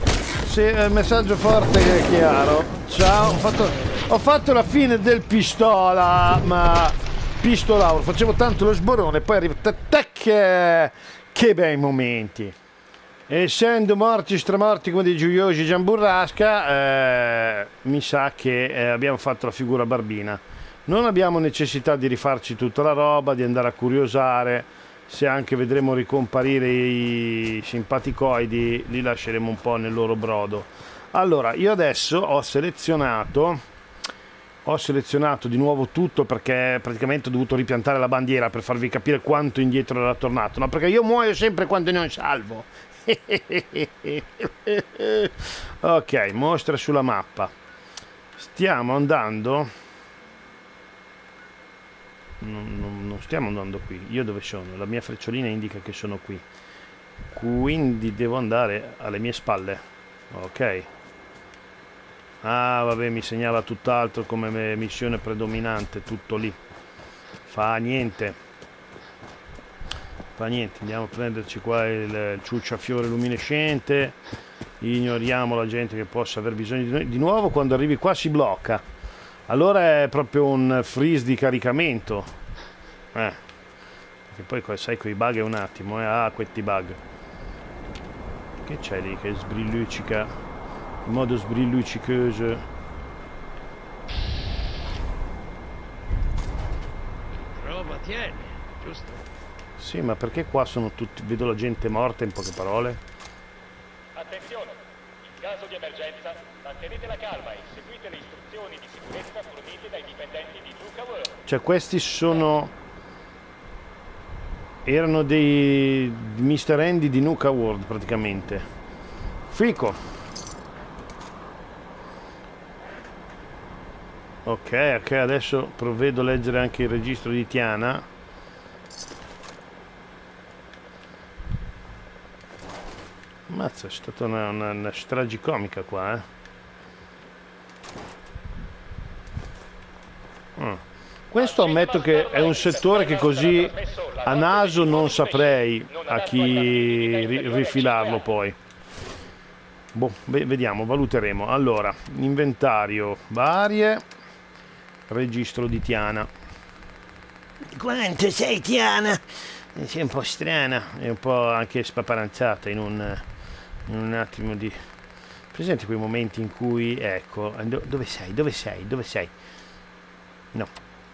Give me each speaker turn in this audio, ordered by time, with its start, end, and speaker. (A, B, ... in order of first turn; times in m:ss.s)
0:00.4-0:12.5 A
0:13.3-0:33.6 A
0:34.6-0:47.5 A
0:48.4-0:49.7 A
0:52.4-0:56.4 A
0:57.3-1:00.9 A
1:02.4-1:06.6 A
1:07.5-1:08.4 A
1:10.4-1:14.2 A
1:14.8-1:18.8 A
1:19.5-1:22.3 A
1:23.1-1:23.4 A
1:24.3-1:27.0 A
1:28.6-1:30.3 A
1:31.0-1:32.6 A
1:37.3-1:39.2 B
1:39.8-1:43.0 A
1:44.1-1:51.4 C
1:51.4-1:52.7 A
1:54.8-1:58.6 A
1:59.5-2:00.0 A
2:04.4-2:08.0 A
2:13.5-2:16.2 A
2:20.6-2:28.6 A
2:21.4-2:28.3 C
2:29.9-2:34.0 A
2:35.1-2:36.3 A
2:37.7-2:43.2 A
2:43.9-2:44.8 A
2:45.5-2:49.3 A